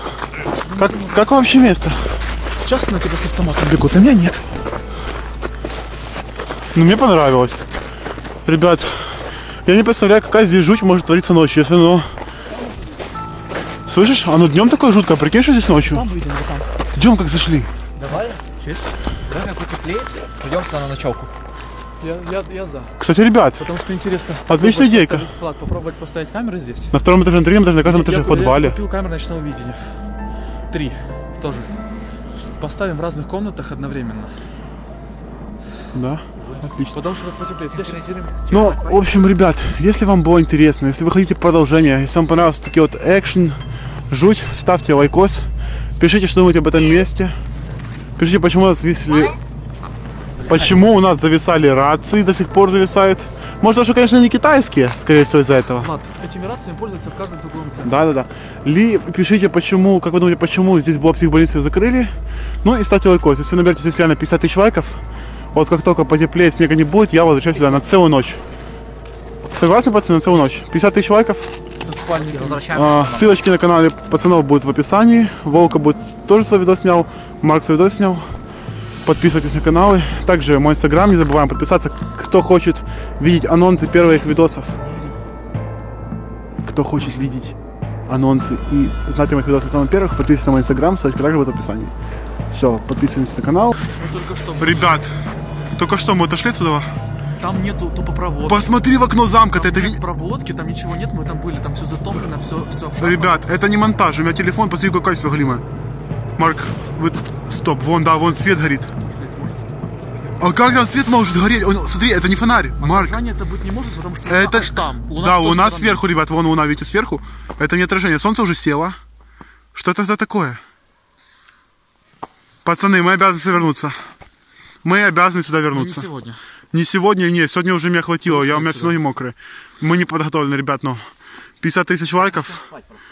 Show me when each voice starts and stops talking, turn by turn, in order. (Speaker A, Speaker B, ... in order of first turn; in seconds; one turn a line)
Speaker A: 0.6-1.4
Speaker B: 0.8-2.2
Speaker A: 2.6-4.5
Speaker B: 6.7-7.6
Speaker B: 8.4-12.1
Speaker A: 12.5-13.1
Speaker B: 13.9-16.1
Speaker A: 15.8-16.7
Speaker B: 16.9-17.7
Speaker C: 18.0-21.3
Speaker A: 22.0-23.0
Speaker B: 23.0-23.7
Speaker A: 23.6-26.9
Speaker B: 24.5-25.3
Speaker B: 26.9-28.8
Speaker A: 27.8-29.9
Speaker A: 30.7-31.8
Speaker A: 32.6-34.5
Speaker B: 35.9-37.0
Speaker C: 36.4-36.7
Speaker A: 36.9-38.1
Speaker C: 37.6-39.2
Speaker B: 38.5-45.5
Speaker B: 46.0-47.4
Speaker B: 48.2-49.4
Speaker A: 50.4-50.8
Speaker B: 50.5-55.9
Speaker A: 55.8-58.0
Speaker B: 57.8-65.0
Speaker B: 65.5-68.4
Speaker B: 69.5-71.5
Speaker A: 71.8-72.6
Speaker C: 72.2-73.4
Speaker B: 72.7-78.3
Speaker B: 79.0-84.8
Speaker A: 84.8-85.2
Speaker B: 86.6-87.5
Speaker B: 88.1-91.9
Speaker B: 92.5-93.9
Speaker A: 93.8-95.0
Speaker B: 94.6-95.2
Speaker B: 95.8-97.0
Speaker A: 97.4-98.9
Speaker B: 98.5-100.0
Speaker A: 99.5-103.4
Speaker B: 103.0-105.6
Speaker B: 106.4-108.9
Speaker A: 109.0-110.1
Speaker C: 110.1-110.6
Speaker B: 110.4-113.2
Speaker A: 112.8-116.0
Speaker B: 114.3-119.0
Speaker B: 119.8-120.6
Speaker B: 122.7-124.0
Speaker B: 124.8-126.1
Speaker A: 125.7-126.4
Speaker B: 126.7-131.0
Speaker A: 128.3-129.0
Speaker B: 131.6-132.6
Speaker C: 132.2-133.0